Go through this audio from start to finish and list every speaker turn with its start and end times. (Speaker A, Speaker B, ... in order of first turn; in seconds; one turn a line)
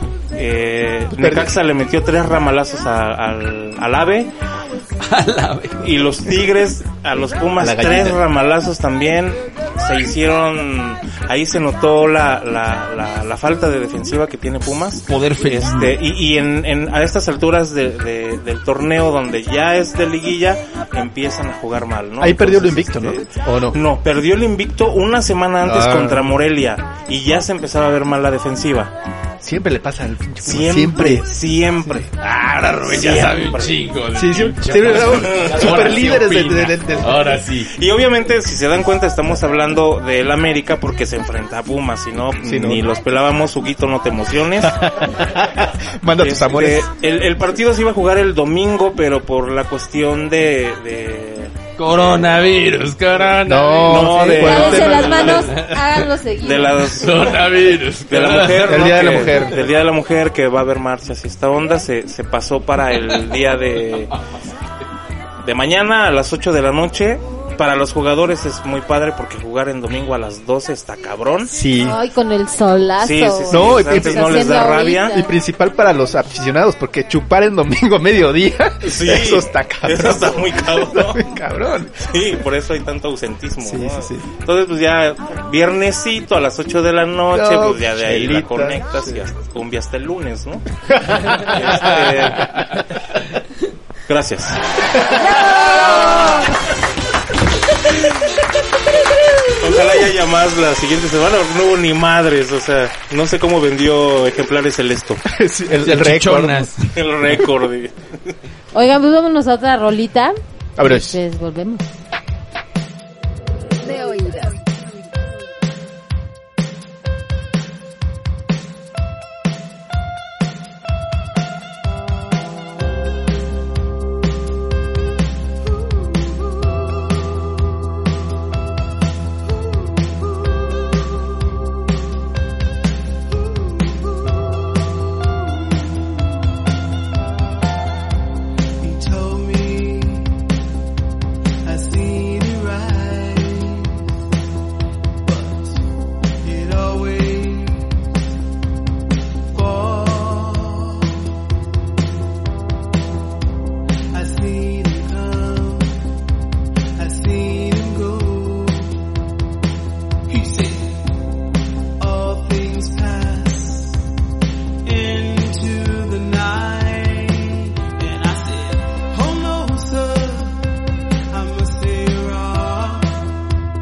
Speaker A: 0.3-4.3
Speaker B: 1.1-1.5
Speaker C: 5.0-5.9
Speaker A: 5.8-28.9
Speaker B: 7.6-8.2
Speaker C: 15.1-16.0
Speaker B: 22.2-23.8
Speaker B: 25.6-26.3
Speaker B: 29.4-32.1
Speaker A: 30.4-32.1
Speaker C: 32.2-37.7
Speaker A: 32.8-33.8
Speaker B: 34.1-37.4
Speaker A: 35.1-35.8
Speaker A: 37.7-44.8
Speaker B: 42.4-42.9
Speaker B: 44.6-46.9
Speaker A: 46.2-52.2
Speaker C: 51.8-56.1
Speaker B: 53.4-55.4
Speaker A: 53.8-55.5
Speaker D: 54.4-56.9
Speaker A: 56.4-57.4
Speaker C: 56.9-59.5
Speaker A: 58.1-64.1
Speaker B: 58.5-59.6
Speaker C: 62.9-63.3
Speaker A: 65.4-71.5
Speaker B: 71.5-72.0
Speaker D: 71.8-75.3
Speaker A: 73.0-75.2
Speaker B: 73.5-82.3
Speaker A: 78.8-81.2
Speaker A: 82.0-90.7
Speaker B: 83.6-84.3
Speaker B: 87.3-89.2
Speaker B: 90.9-91.4
Speaker A: 91.3-92.7
Speaker A: 94.1-94.6
Speaker A: 99.6-105.2
Speaker B: 105.2-106.7
Speaker C: 105.8-106.9
Speaker A: 106.9-108.3
Speaker D: 108.7-111.8
Speaker B: 110.8-111.2
Speaker D: 114.1-114.4
Speaker E: 133.5-134.3
Speaker E: 135.2-136.2
Speaker E: 138.8-140.4
Speaker E: 141.6-144.1
Speaker E: 145.2-145.8
Speaker E: 146.4-148.1
Speaker E: 149.5-151.2
Speaker E: 154.1-156.0
Speaker E: 156.9-159.0
Speaker E: 160.3-160.9
Speaker E: 162.0-164.0
Speaker E: 164.8-170.6
Speaker E: 171.3-173.2